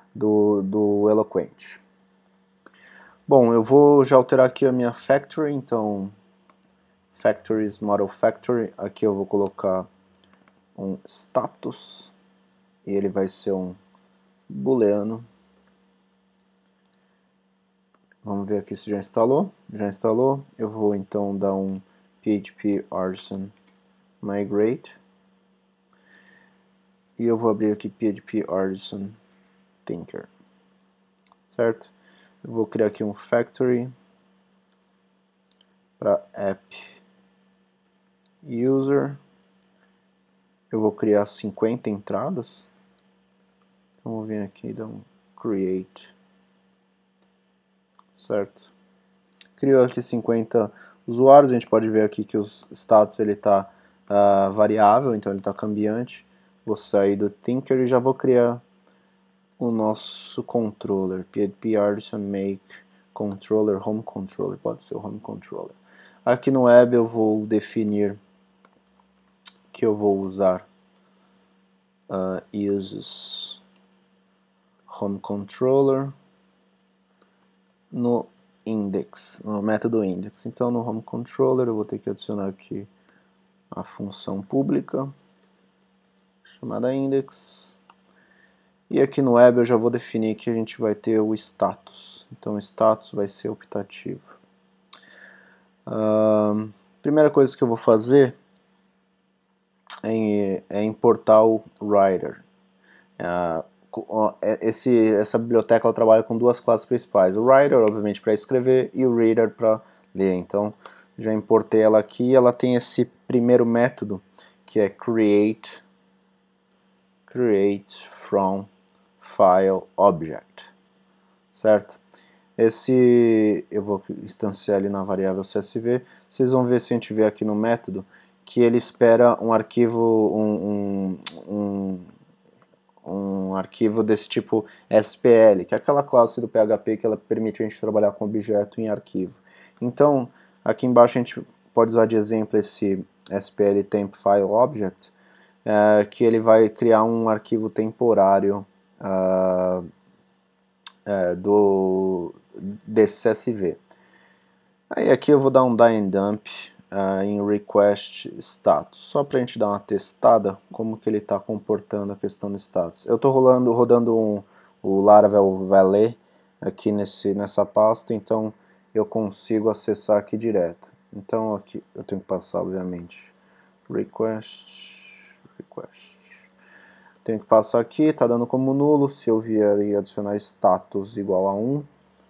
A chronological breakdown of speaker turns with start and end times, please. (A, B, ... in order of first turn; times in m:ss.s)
0:00.1-0:01.8 A
0:03.3-0:06.1 A
0:07.1-0:09.9 A
0:10.7-0:12.1 A
0:12.8-0:13.8 A
0:14.5-0:15.3 A
0:18.2-0:23.5 A
0:24.2-0:25.0 A
0:27.2-0:29.2 A
0:29.8-0:30.3 A
0:31.5-0:33.9 A
0:36.0-0:37.0 A
0:38.4-0:39.2 A
0:40.7-0:42.7 A
0:44.0-0:46.1 A
0:48.2-0:48.7 A
0:49.6-0:58.6 A
0:59.6-1:08.2 A
1:09.7-1:10.7 A
1:12.1-1:13.6 A
1:14.9-1:16.1 A
1:17.9-1:22.9 A
1:23.7-1:25.1 A
1:26.4-1:27.8 A
1:28.9-1:34.4 A
1:35.8-1:38.4 A
1:40.0-1:42.4 A
1:43.2-1:55.8 A
1:57.3-1:58.7 A
1:59.2-2:00.7 A
2:01.5-2:02.0 A
2:02.6-2:12.1 A
2:13.0-2:25.1 A
2:25.6-2:29.8 A
2:31.0-2:33.8 A
2:34.9-2:53.3 A
2:53.9-2:56.5 A
2:57.2-3:01.9 A